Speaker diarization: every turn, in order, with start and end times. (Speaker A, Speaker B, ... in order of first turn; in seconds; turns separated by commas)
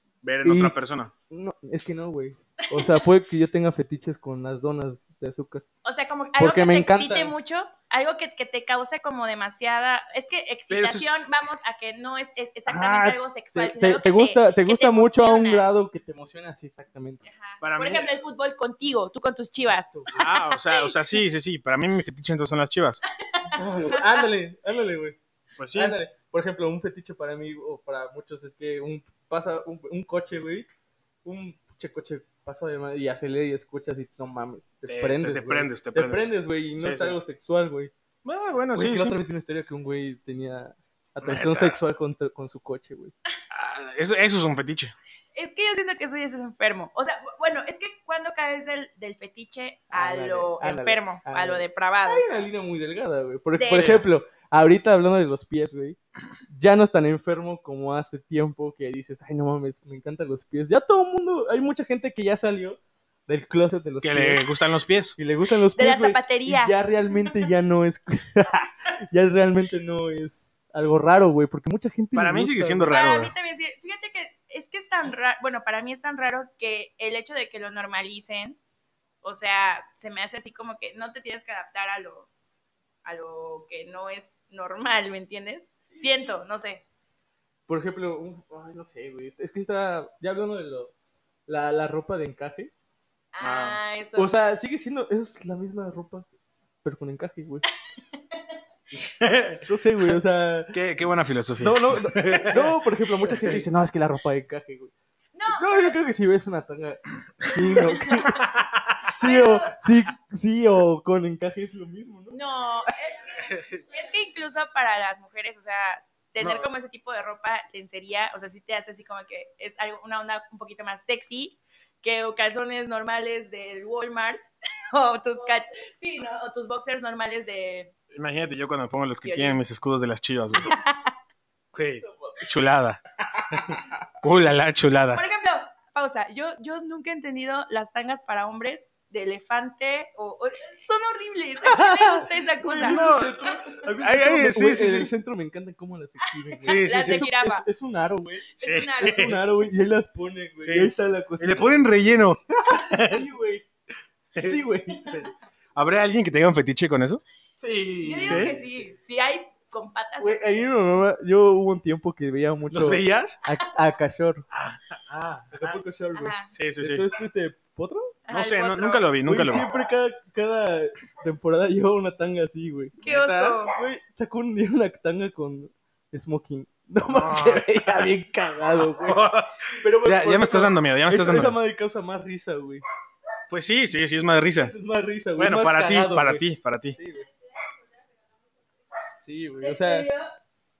Speaker A: 0.2-1.1, Speaker B: 0.4-0.8, Speaker B: 1.3-5.6, Speaker C: 2.6-3.1, Speaker C: 5.8-15.7, Speaker B: 6.4-7.3, Speaker A: 10.7-11.2, Speaker B: 12.7-17.2, Speaker C: 17.2-20.9, Speaker A: 17.6-18.1, Speaker B: 19.9-20.3, Speaker A: 20.1-23.0, Speaker C: 23.2-24.3, Speaker B: 23.5-25.2, Speaker A: 25.6-26.0, Speaker B: 25.7-30.7, Speaker B: 31.2-37.9, Speaker A: 34.9-37.2, Speaker A: 38.2-39.2, Speaker B: 38.7-43.1, Speaker A: 41.2-41.8, Speaker A: 43.5-44.9, Speaker C: 45.4-52.5, Speaker B: 49.9-56.0, Speaker C: 53.6-54.0, Speaker A: 53.7-54.0, Speaker B: 56.5-64.4, Speaker A: 64.0-65.2, Speaker B: 65.2-73.0, Speaker C: 65.8-67.4, Speaker A: 72.2-73.3, Speaker C: 72.9-78.6, Speaker C: 79.2-82.3, Speaker C: 83.0-86.8, Speaker B: 85.9-86.3, Speaker B: 87.7-90.9, Speaker B: 91.5-92.7, Speaker C: 93.3-94.3, Speaker A: 93.4-93.8, Speaker B: 94.2-96.3, Speaker B: 96.8-97.6, Speaker C: 98.1-98.4, Speaker A: 98.9-99.7, Speaker B: 99.7-100.8, Speaker A: 100.7-103.6, Speaker B: 101.6-104.9, Speaker C: 105.3-106.0, Speaker B: 105.5-108.5, Speaker C: 107.8-108.3, Speaker A: 108.3-109.1, Speaker B: 109.1-112.4, Speaker C: 109.1-109.9, Speaker C: 112.3-127.9, Speaker A: 113.4-113.8, Speaker A: 116.4-116.7, Speaker A: 128.1-130.8, Speaker C: 129.2-129.6, Speaker C: 130.6-131.1, Speaker A: 131.7-133.0, Speaker B: 133.4-133.9, Speaker A: 133.5-135.2, Speaker C: 135.1-143.6, Speaker B: 141.8-151.8, Speaker A: 142.8-145.1, Speaker C: 146.6-147.7, Speaker A: 146.6-147.3, Speaker C: 148.6-149.3, Speaker A: 148.6-149.4, Speaker A: 150.6-153.2, Speaker B: 153.0-153.7, Speaker A: 154.3-154.6, Speaker B: 154.4-155.3, Speaker A: 155.8-158.5, Speaker B: 157.6-158.9, Speaker C: 158.0-160.6, Speaker B: 160.2-164.5, Speaker A: 162.7-163.4, Speaker A: 164.5-165.8, Speaker B: 165.5-168.2, Speaker C: 166.2-166.5, Speaker A: 166.5-167.0, Speaker C: 168.3-169.1, Speaker A: 168.3-169.7, Speaker B: 169.2-173.0, Speaker A: 173.0-173.6, Speaker C: 173.0-173.8, Speaker B: 173.6-182.8, Speaker A: 177.1-178.0, Speaker A: 178.8-181.6, Speaker A: 183.5-184.7, Speaker B: 184.6-187.3, Speaker A: 185.4-187.0, Speaker B: 189.2-190.1, Speaker C: 189.6-190.3